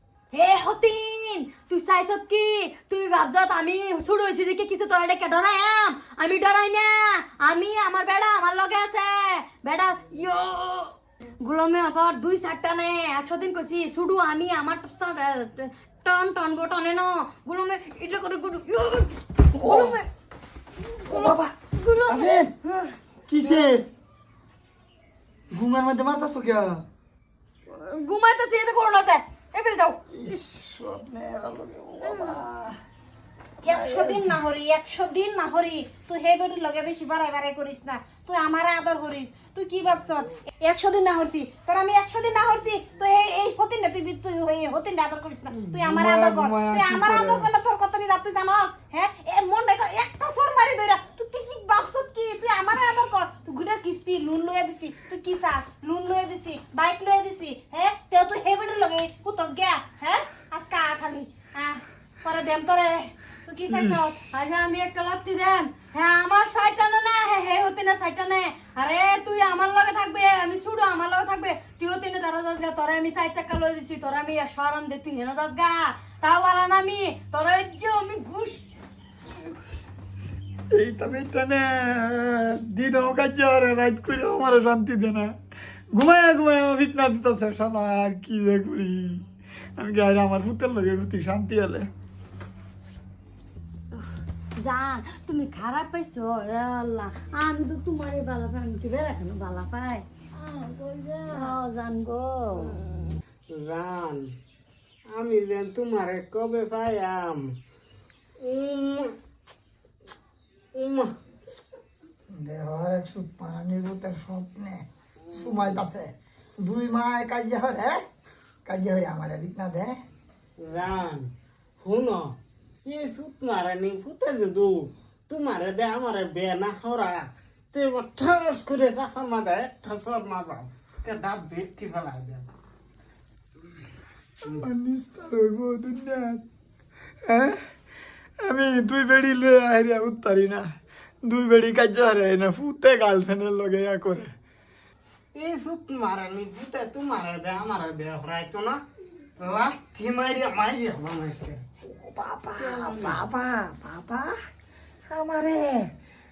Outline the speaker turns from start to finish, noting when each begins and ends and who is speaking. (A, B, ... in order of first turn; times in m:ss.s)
0:00.3-0:20.1 A
0:19.5-0:20.0 B
0:21.0-0:21.5 B
0:21.0-0:22.9 A
0:22.1-0:22.5 B
0:23.3-0:23.8 B
0:25.5-0:26.8 B
0:27.7-0:30.4 A
0:30.1-0:32.8 B
0:32.0-0:32.4 A
0:33.6-1:04.2 C
0:33.6-0:34.4 B
0:45.6-0:47.5 B
1:03.7-1:04.1 B
1:04.3-1:18.6 A
1:20.7-1:25.3 B
1:25.9-1:29.2 B
1:29.8-1:31.9 B
1:34.6-1:40.0 A
1:40.6-1:41.3 D
1:41.3-1:42.8 A
1:43.5-1:44.3 D
1:45.1-1:47.5 D
1:48.4-1:49.1 D
1:50.7-1:51.1 D
1:52.3-1:58.0 B
1:55.3-1:55.6 D
1:58.6-2:00.0 B
2:00.6-2:12.4 D
2:14.5-2:16.4 B
2:17.2-2:17.6 B
2:18.4-2:20.6 B
2:21.2-2:24.3 B
2:25.3-2:28.8 D
2:29.4-2:31.6 D
2:31.8-2:34.3 B
2:32.6-2:33.2 D
2:35.1-2:35.9 B